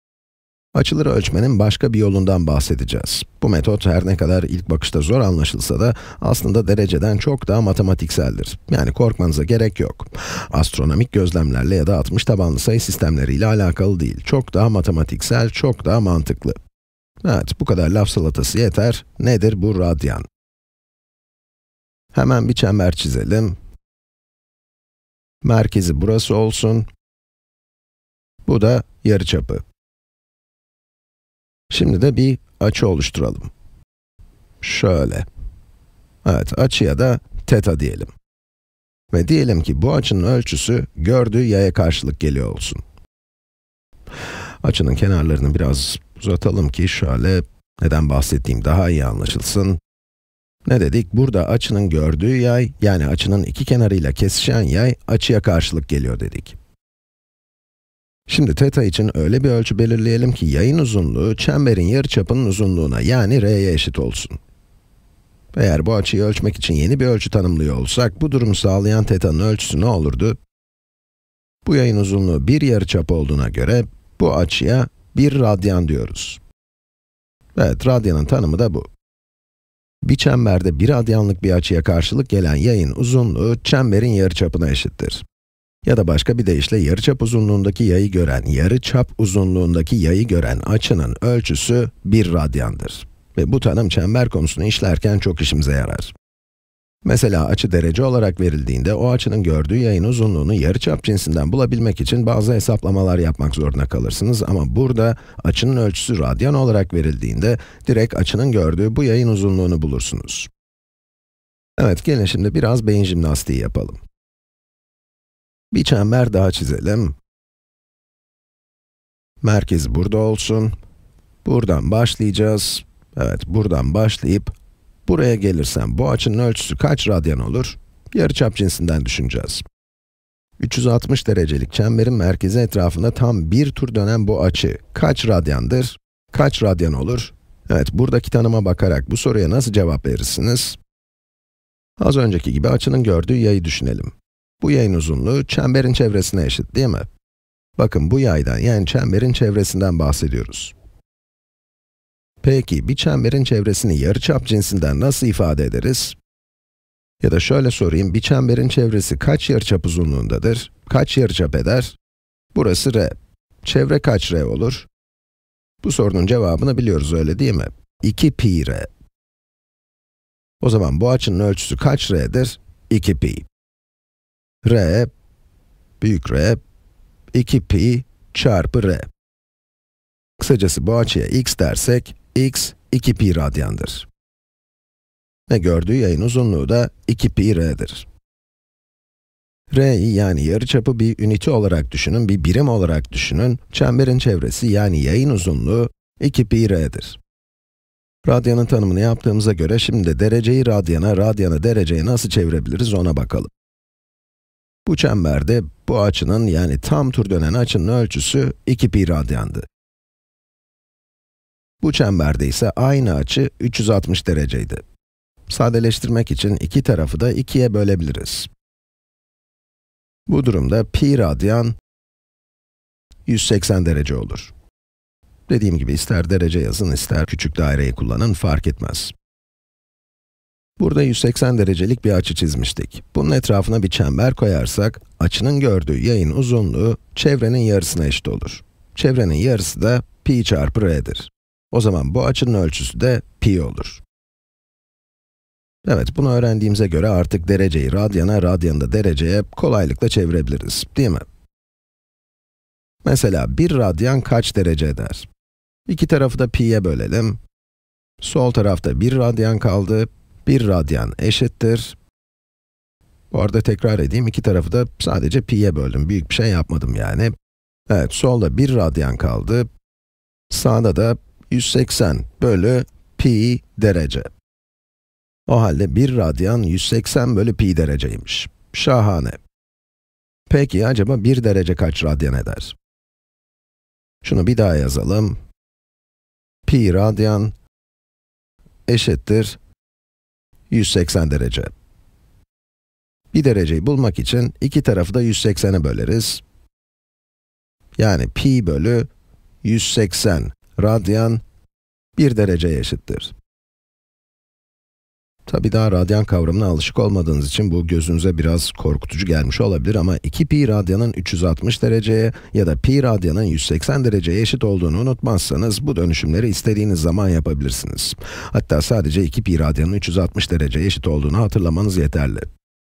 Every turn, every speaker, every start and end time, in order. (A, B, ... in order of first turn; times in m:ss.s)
0:00.8-0:16.6 A
0:17.2-0:20.2 A
0:22.1-0:23.6 A
0:25.4-0:26.9 A
0:28.5-0:29.6 A
0:31.7-0:33.5 A
0:34.6-0:35.3 A
0:36.2-0:38.1 A
0:39.1-0:42.8 A
0:44.6-0:49.8 A
0:50.7-0:56.6 A
0:58.3-1:04.4 A
1:05.5-1:10.4 A
1:11.6-1:16.4 A
1:17.6-1:18.9 A
1:20.0-1:25.2 A
1:25.8-1:36.1 A
1:37.0-1:50.5 A
1:51.8-1:54.0 A
1:55.7-1:57.2 A
1:59.4-2:00.8 A
2:01.4-2:04.5 A
2:05.1-2:09.6 A
2:10.6-2:20.8 A
2:22.0-2:27.1 A
2:27.8-2:30.8 A
2:32.4-2:36.2 A
2:37.2-2:42.0 A
2:42.5-2:44.9 A
2:45.8-2:48.9 A
2:50.6-2:53.5 A
2:54.6-2:55.1 A
2:56.0-2:56.6 A
2:57.3-2:59.1 A
3:00.4-3:04.1 A
3:05.5-3:08.1 A
3:09.7-3:17.2 A
3:18.2-3:23.5 A
3:24.9-3:29.7 A
3:31.8-3:34.8 A
3:35.5-3:38.5 A
3:40.3-3:41.8 A
3:43.3-3:44.5 A
3:45.5-3:49.1 A
3:50.8-4:04.0 A
4:05.8-4:11.2 A
4:13.0-4:15.3 A
4:15.9-4:17.4 A
4:18.2-4:22.0 A
4:23.3-4:27.3 A
4:27.9-4:29.7 A
4:30.5-4:34.3 A
4:35.5-4:39.4 A
4:40.5-4:42.8 A
4:44.2-4:45.4 A
4:46.7-4:47.5 A
4:48.9-4:49.6 A
4:50.7-4:51.7 A
4:53.3-4:56.4 A
4:58.0-4:59.1 A
4:59.6-5:01.4 A
5:02.2-5:03.3 A
5:05.5-5:22.5 A